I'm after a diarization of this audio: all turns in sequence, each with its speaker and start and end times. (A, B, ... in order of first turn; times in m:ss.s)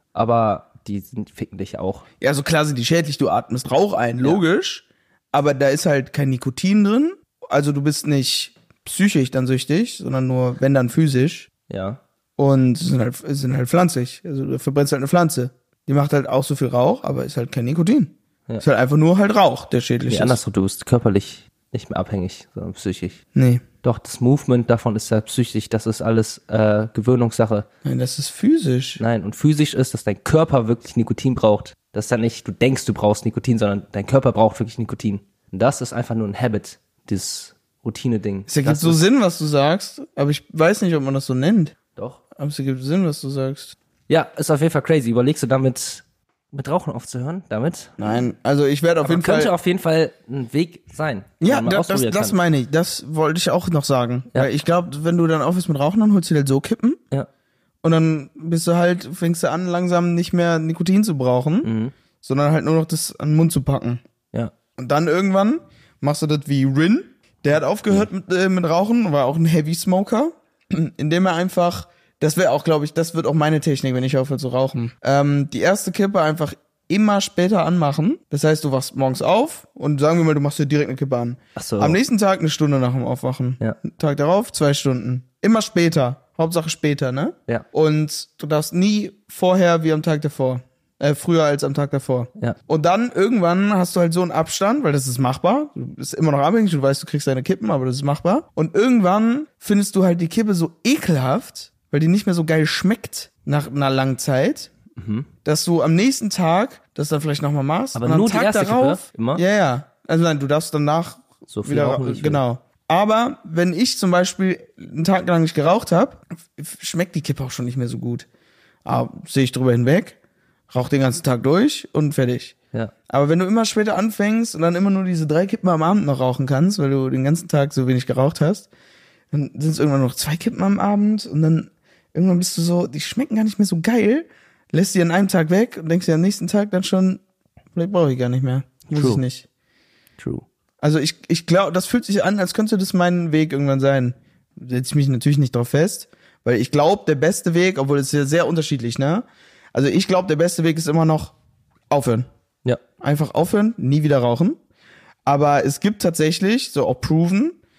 0:00.1-0:02.0 A
0:02.2-0:11.5 B
0:11.7-0:12.0 A
0:12.4-0:20.4 B
0:20.1-0:23.2 A
0:23.3-0:23.6 B
0:23.8-0:27.7 A
0:27.8-0:29.0 B
0:29.0-0:39.0 A
0:38.5-0:41.8 B
0:42.0-0:42.2 A
0:42.4-0:43.7 B
0:44.1-0:48.2 A
0:48.0-0:49.5 B
0:49.0-0:52.4 A
0:51.4-0:57.0 B
0:57.8-1:01.7 B
1:01.6-1:01.9 A
1:02.2-1:04.0 B
1:04.8-1:44.7 B
1:21.6-1:22.0 A
1:45.0-1:45.3 A
1:45.4-1:58.3 B
1:47.9-1:49.4 A
1:51.5-1:52.4 A
1:58.8-2:00.2 B
2:00.7-2:02.5 B
2:03.1-2:08.7 B
2:09.3-2:17.2 B
2:17.7-2:19.5 B
2:18.9-2:19.2 A
2:20.2-2:20.4 A
2:20.8-2:31.3 B
2:31.9-2:32.3 B
2:33.0-2:34.6 B
2:35.2-2:37.6 B